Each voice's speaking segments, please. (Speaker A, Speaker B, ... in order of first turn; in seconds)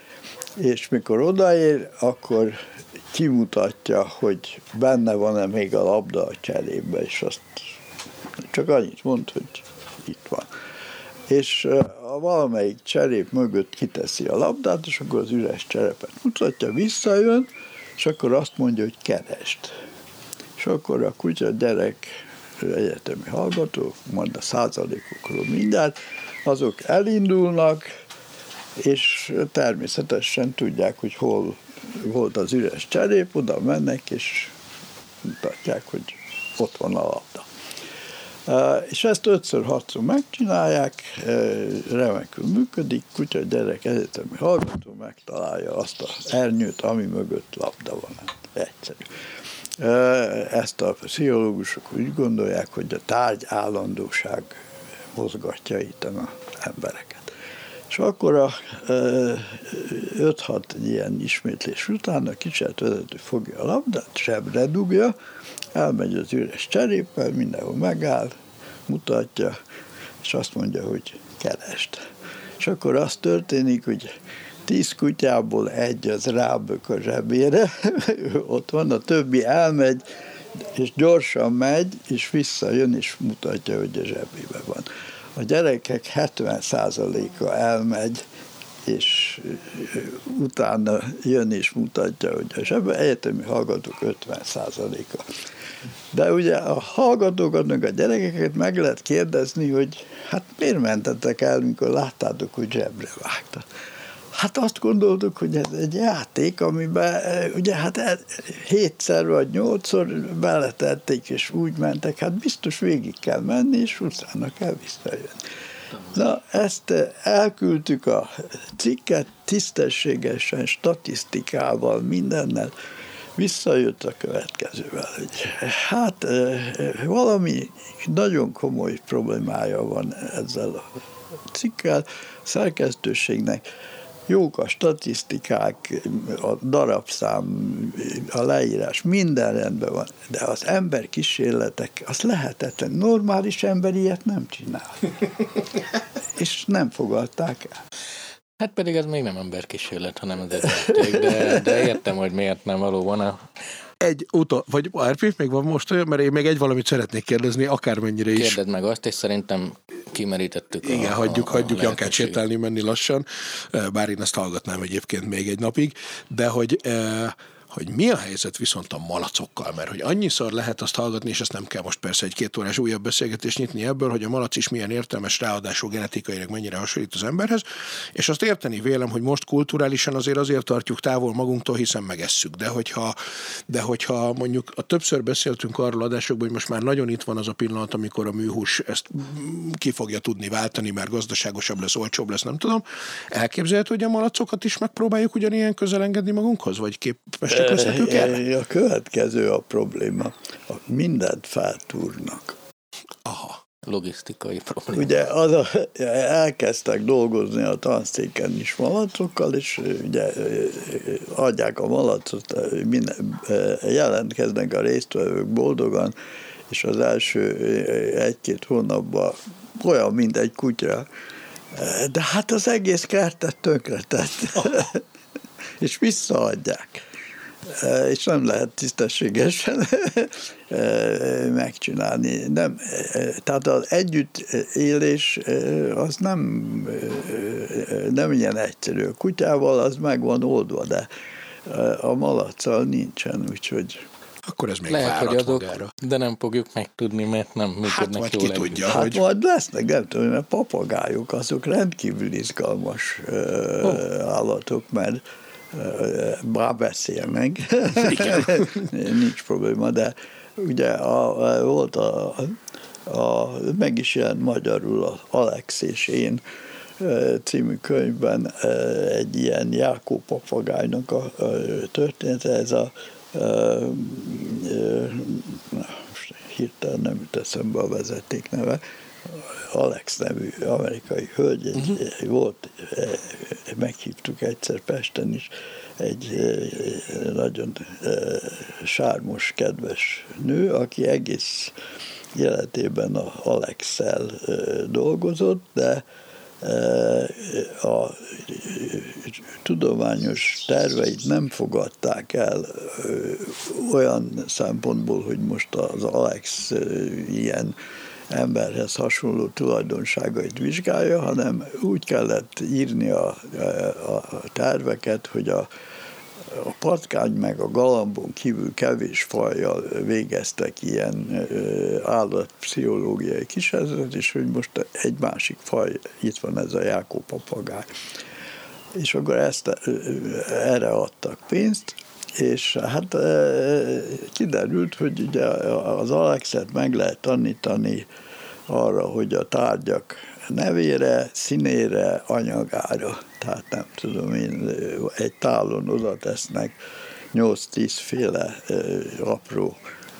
Speaker A: 0.6-2.6, 3.1-7.7, 8.4-10.5, 11.3-19.7, 20.6-27.9, 28.8-34.5, 35.2-37.5, 38.5-49.1, 49.8-54.6, 55.1-57.3, 57.9-65.1, 65.7-68.3, 68.9-69.6, 70.2-72.0, 72.6-74.1, 74.7-88.2, 88.8-95.3, 96.1-103.7, 104.3-115.4, 116.1-122.7, 123.4-133.6, 134.3-145.1, 146.3-147.8, 150.6-151.7, 197.5-202.6, 204.9-216.1, 216.7-221.1, 221.7-225.0, 225.8-227.0, 227.7-241.1, 241.7-244.1, 248.9-266.4, 267.0-291.7, 292.3-296.0, 296.6-307.8, 308.3-315.7, 316.5-327.9, 328.9-338.1, 338.7-346.8, 347.3-349.8
Speaker B: 148.6-153.4, 158.3-162.4, 203.8-205.1, 244.9-248.9
Speaker C: 154.0-158.6, 160.8-183.2, 183.7-198.4, 203.2-203.6, 244.4-245.9, 247.8-249.2, 258.1-258.6